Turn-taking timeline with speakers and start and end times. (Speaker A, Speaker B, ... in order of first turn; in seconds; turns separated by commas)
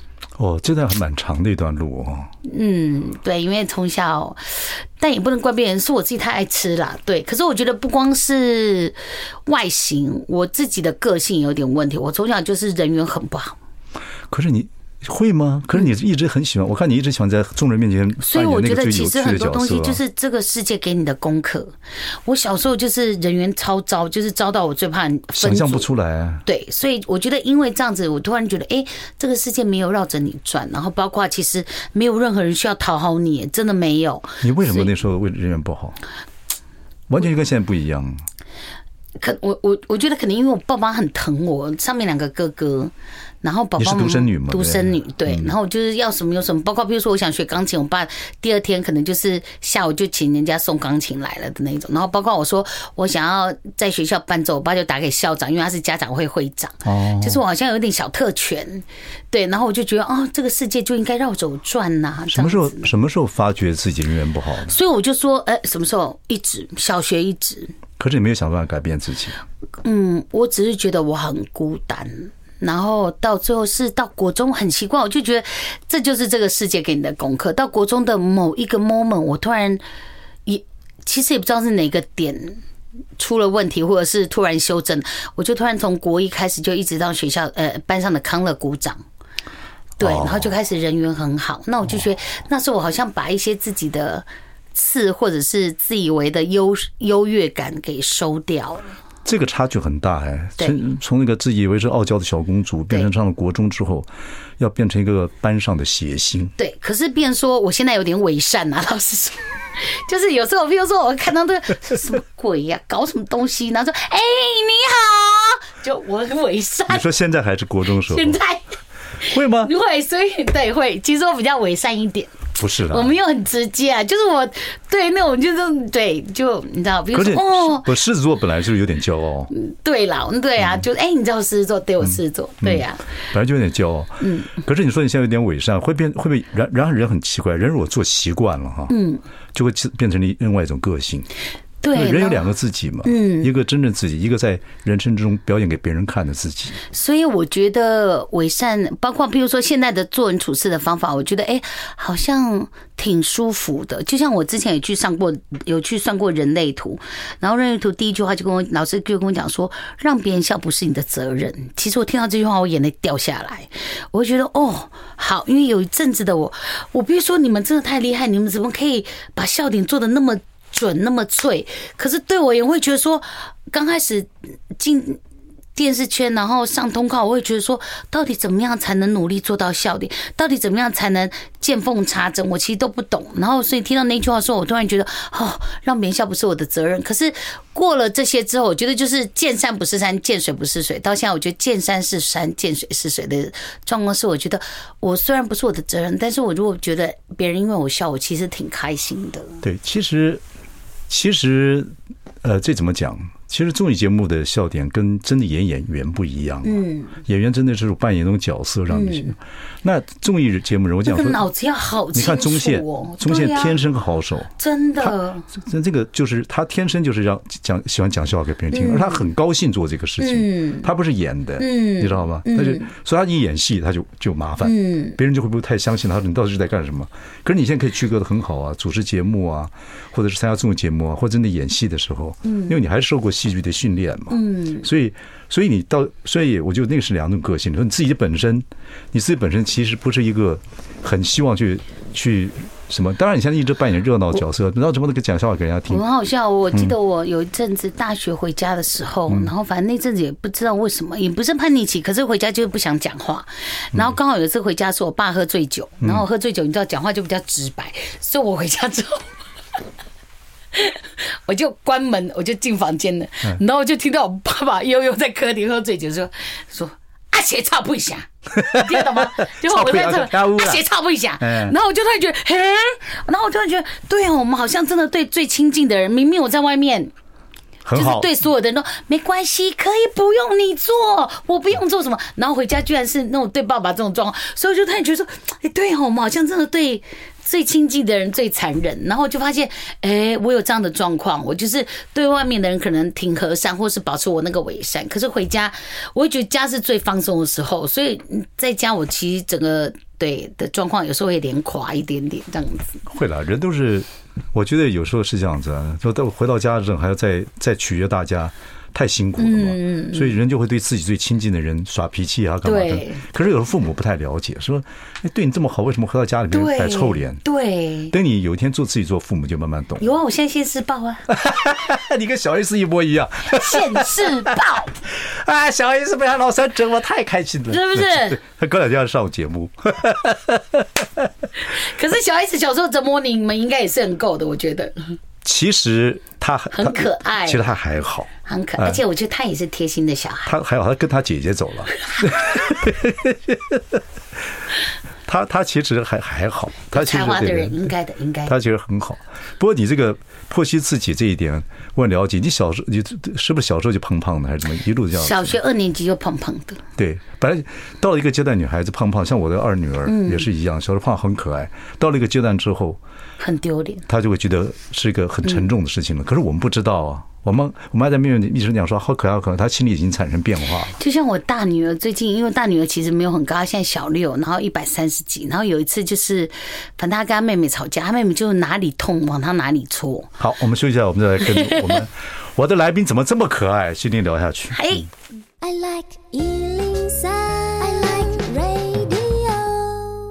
Speaker A: 0.4-2.3, Speaker B: 2.4-13.6, Speaker A: 14.3-20.0, Speaker B: 18.2-21.7, Speaker B: 22.2-25.9, Speaker A: 25.4-26.4, Speaker B: 26.4-34.9, Speaker A: 34.4-36.0, Speaker A: 37.1-38.2, Speaker B: 39.2-42.9, Speaker B: 43.4-62.9, Speaker A: 43.8-45.5, Speaker A: 56.9-57.4, Speaker A: 62.3-64.8, Speaker B: 64.7-67.8, Speaker A: 68.0-69.4, Speaker B: 69.8-79.8, Speaker B: 80.5-82.6, Speaker B: 83.2-89.0, Speaker B: 90.0-98.9, Speaker A: 90.0-90.5, Speaker A: 99.2-104.1, Speaker A: 104.6-106.5, Speaker B: 106.6-117.1, Speaker A: 116.9-118.4, Speaker B: 118.1-118.7, Speaker B: 119.2-127.9, Speaker A: 119.3-119.7, Speaker A: 122.6-123.1, Speaker A: 127.1-129.5, Speaker B: 129.5-133.0, Speaker A: 132.0-138.9, Speaker B: 134.2-134.6, Speaker B: 138.9-139.2, Speaker A: 139.5-141.3, Speaker B: 141.8-142.5, Speaker A: 141.9-146.8, Speaker B: 143.0-143.5, Speaker B: 146.9-175.2, Speaker B: 175.8-199.6, Speaker A: 199.6-200.4, Speaker A: 201.1-201.9, Speaker A: 202.4-211.4, Speaker B: 206.6-207.2, Speaker B: 208.9-209.3, Speaker B: 211.1-213.8, Speaker A: 212.1-246.0, Speaker B: 214.6-215.5, Speaker B: 218.7-219.3, Speaker B: 220.2-220.9, Speaker B: 221.6-222.9, Speaker B: 224.6-225.2, Speaker B: 232.4-232.8, Speaker B: 234.3-234.9, Speaker B: 245.9-259.3, Speaker B: 260.7-277.1, Speaker A: 268.6-270.8, Speaker A: 271.4-271.8, Speaker A: 277.9-278.3, Speaker B: 277.9-303.0, Speaker A: 303.1-317.4, Speaker B: 309.4-310.4, Speaker B: 312.6-313.3, Speaker B: 316.5-318.1, Speaker A: 318.1-320.1, Speaker B: 320.0-321.3, Speaker A: 321.3-331.3, Speaker B: 323.5-324.9, Speaker B: 327.7-328.4, Speaker B: 331.6-335.2, Speaker A: 335.4-339.0, Speaker B: 336.7-337.7, Speaker B: 338.4-340.5, Speaker A: 340.5-344.0, Speaker B: 342.2-342.5, Speaker A: 345.3-347.9, Speaker B: 346.9-348.6, Speaker A: 348.5-355.6, Speaker B: 355.1-356.8, Speaker A: 357.0-363.0, Speaker B: 360.1-360.5, Speaker B: 363.4-364.1, Speaker A: 364.1-370.9, Speaker B: 370.9-380.4, Speaker A: 380.4-384.9, Speaker B: 381.4-382.0, Speaker B: 384.7-385.1, Speaker C: 385.6-390.0, Speaker B: 387.8-388.7